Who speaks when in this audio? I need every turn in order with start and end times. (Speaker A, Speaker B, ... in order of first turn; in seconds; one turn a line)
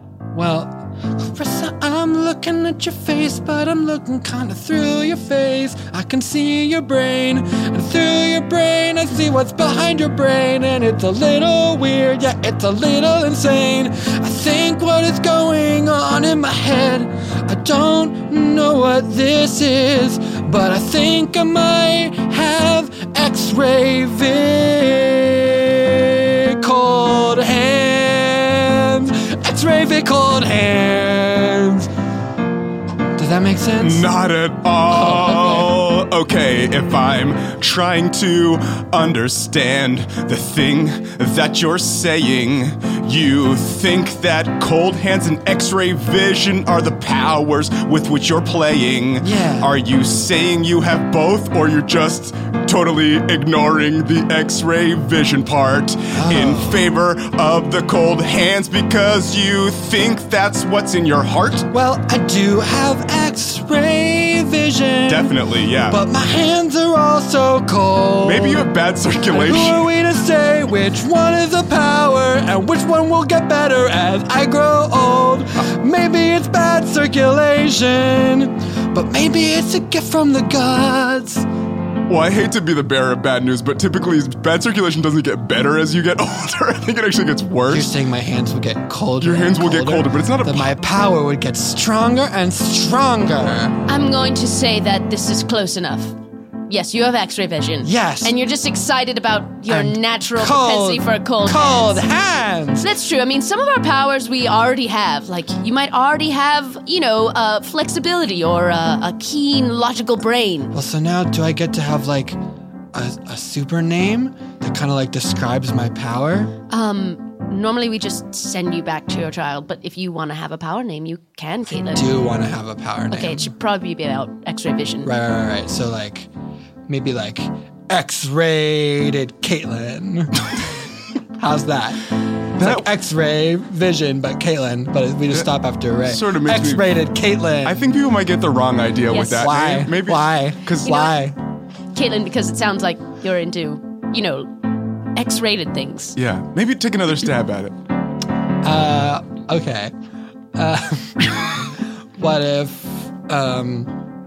Speaker A: 0.3-31.9
Speaker A: 33.2-34.1
Speaker B: 33.8-61.7
Speaker C: 35.1-35.6
Speaker A: 49.2-49.7
Speaker A: 56.1-56.8
Speaker A: 61.7-65.3
Speaker B: 65.1-66.0
Speaker A: 65.9-68.7
Speaker B: 68.2-69.9
Speaker A: 69.3-81.5
Speaker B: 82.1-87.9
Speaker A: 87.7-93.8
Speaker B: 89.2-90.7
Speaker C: 93.9-96.2
Speaker C: 96.7-102.0
Speaker A: 97.8-98.4
Speaker A: 99.7-102.9
Speaker C: 102.8-110.7
Speaker A: 110.7-112.4
Speaker A: 112.9-116.5
Speaker C: 116.7-122.1
Speaker A: 121.9-123.5
Speaker C: 123.1-125.1
Speaker A: 125.0-126.3
Speaker A: 126.9-130.4
Speaker A: 131.4-132.1
Speaker B: 132.6-132.9
Speaker A: 132.6-137.8
Speaker B: 135.3-137.1
Speaker B: 137.6-141.1
Speaker C: 139.1-139.5
Speaker A: 139.4-141.3
Speaker C: 140.9-141.2
Speaker C: 141.9-144.5
Speaker C: 145.2-146.2
Speaker B: 146.2-147.8
Speaker A: 148.6-149.9
Speaker A: 150.6-151.3
Speaker A: 152.2-153.9